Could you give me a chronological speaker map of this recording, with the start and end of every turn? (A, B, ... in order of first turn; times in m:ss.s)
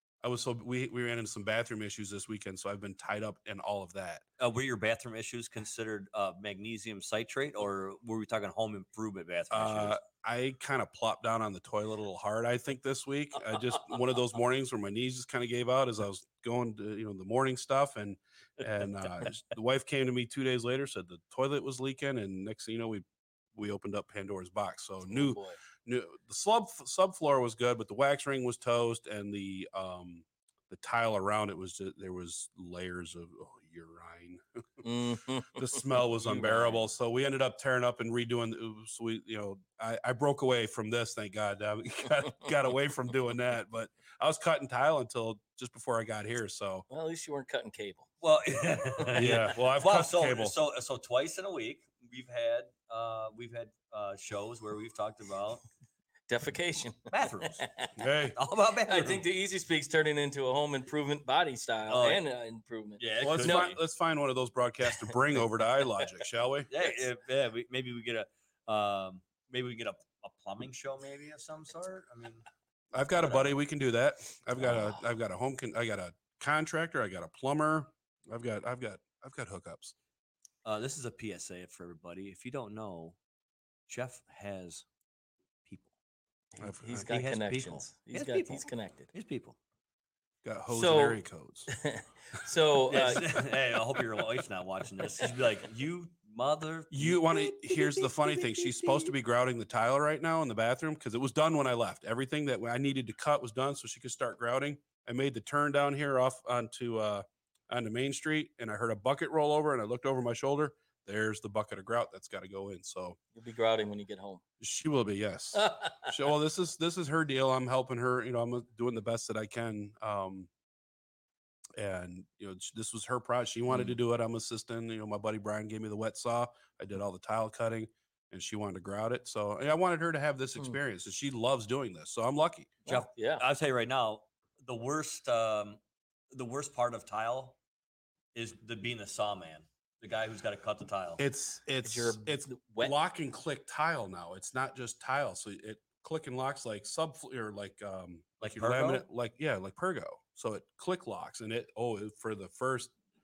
0:00.2-0:04.2 A
0:04.4-0:10.0 B
0:09.5-0:34.8 A
0:25.0-0:25.6 C
0:34.8-0:36.9 C
0:35.6-0:46.9 A
0:46.9-0:48.1 C
0:48.2-0:55.6 B
0:49.2-0:50.6 A
0:56.3-0:57.9 C
0:57.1-0:57.7 B
0:58.0-0:58.4 A
0:58.4-0:59.2 B
0:58.9-1:03.7 C
1:01.9-1:02.2 B
1:03.0-1:03.8 B
1:03.2-1:06.7 A
1:06.7-1:12.5 B
1:12.9-1:19.9 A
1:13.2-1:13.5 B
1:20.6-1:23.2 B
1:23.9-1:24.9 B
1:25.7-1:25.9 B
1:26.6-1:29.1 C
1:26.6-1:27.1 A
1:27.1-1:29.6 B
1:30.4-1:31.7 A
1:30.7-1:31.2 C
1:31.7-1:33.2 C
1:32.9-1:39.1 B
1:36.9-1:53.2 A
1:53.4-1:54.4 C
1:54.6-2:00.5 A
1:55.6-1:56.1 C
2:01.8-2:12.8 A
2:03.7-2:04.0 C
2:12.9-2:13.4 C
2:12.9-2:15.8 B
2:16.3-2:17.6 B
2:18.3-2:21.2 B
2:21.2-2:32.9 A
2:21.8-2:23.0 C
2:28.4-2:29.0 B